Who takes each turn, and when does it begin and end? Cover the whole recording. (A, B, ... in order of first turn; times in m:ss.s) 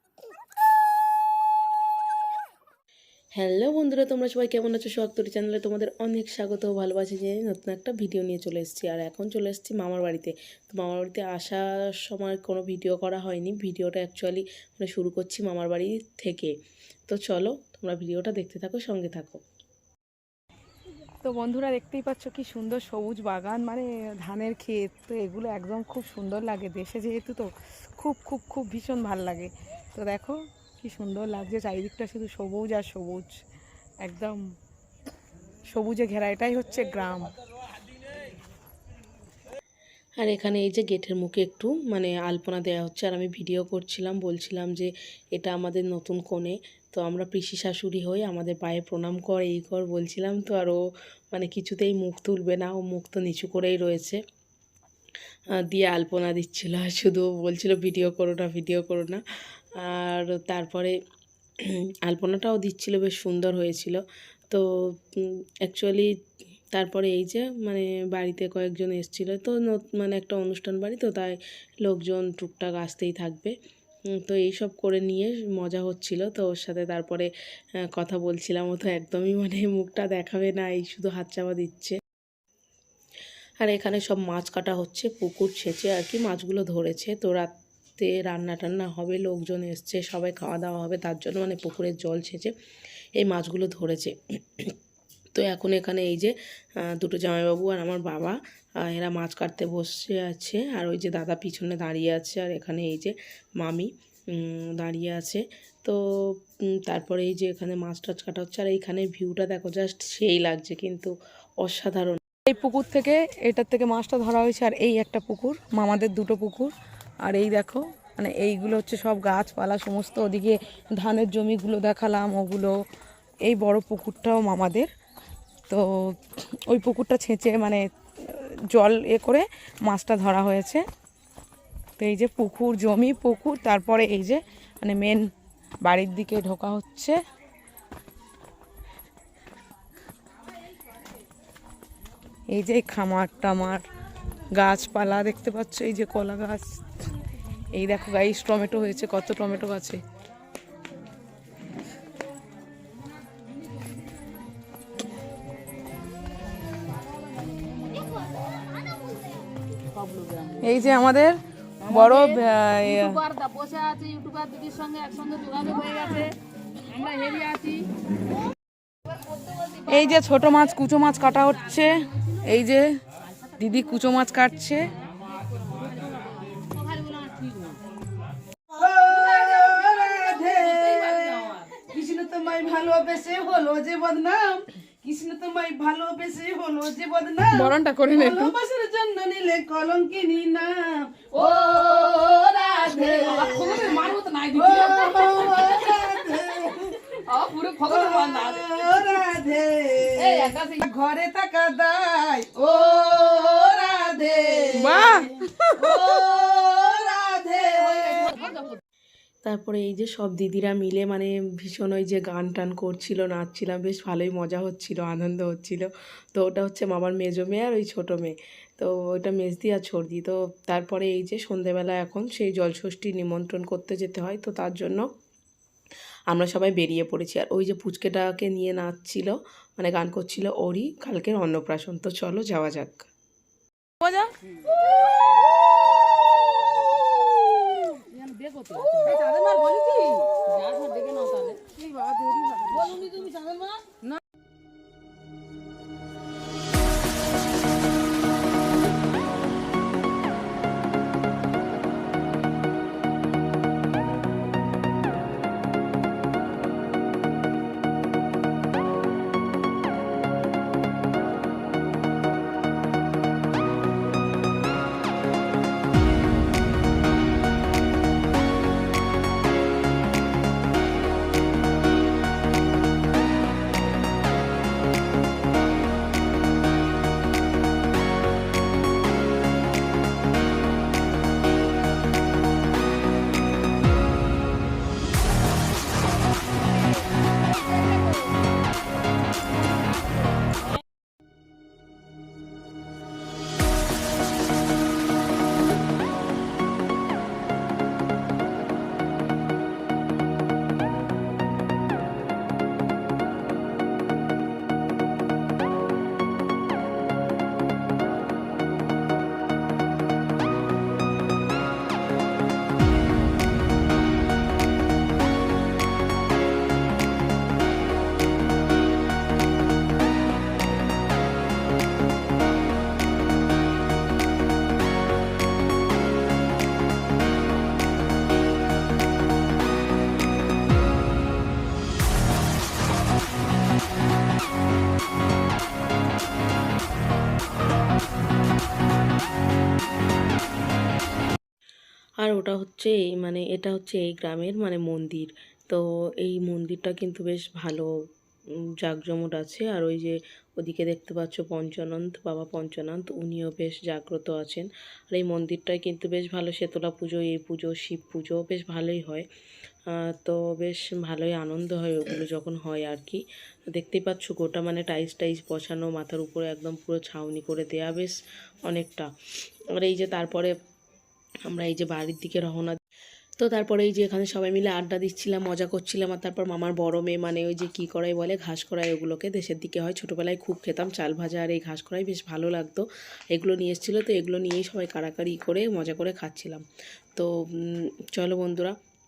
0:03.4-0:16.5 A
0:17.1-0:19.4 A
0:21.2-0:33.4 B
0:34.0-0:34.5 B
0:35.7-0:37.3 B
0:40.2-0:50.8 A
0:51.3-0:54.2 A
0:55.6-0:59.2 A
0:59.8-1:00.9 A
1:02.0-1:06.1 A
1:06.7-1:13.5 A
1:14.1-1:17.3 A
1:17.9-1:22.0 A
1:23.6-1:32.5 A
1:33.2-1:34.7 A
1:35.3-1:52.2 A
1:52.5-1:56.7 B
1:57.2-2:02.8 B
2:03.4-2:04.9 B
2:05.7-2:10.8 B
2:12.0-2:15.3 B
2:15.8-2:17.2 B
2:22.5-2:23.8 B
2:24.6-2:26.8 B
2:27.7-2:30.0 B
2:37.8-2:38.3 C
2:39.0-2:39.3 C
2:39.9-2:40.7 C
2:40.6-2:43.2 B
2:41.8-2:47.9 C
2:49.8-2:52.9 B
2:53.6-2:54.9 B
2:55.7-2:57.8 C
2:58.7-3:28.6 D
3:00.6-3:01.6 C
3:07.5-3:08.5 B
3:11.7-3:12.1 C
3:12.9-3:16.1 C
3:17.1-3:18.8 C
3:20.1-3:20.7 C
3:24.7-3:26.0 B
3:29.4-3:45.0 A
3:46.3-3:53.1 A
3:54.0-3:54.3 B
3:58.1-4:04.0 C
5:42.2-5:47.9 A
5:48.8-5:59.2 A
5:59.9-6:03.2 A
6:03.7-6:08.2 A
6:08.7-6:09.1 A
6:09.7-6:10.5 A
6:11.5-6:12.8 A
6:13.4-6:26.6 A
6:27.2-6:28.8 A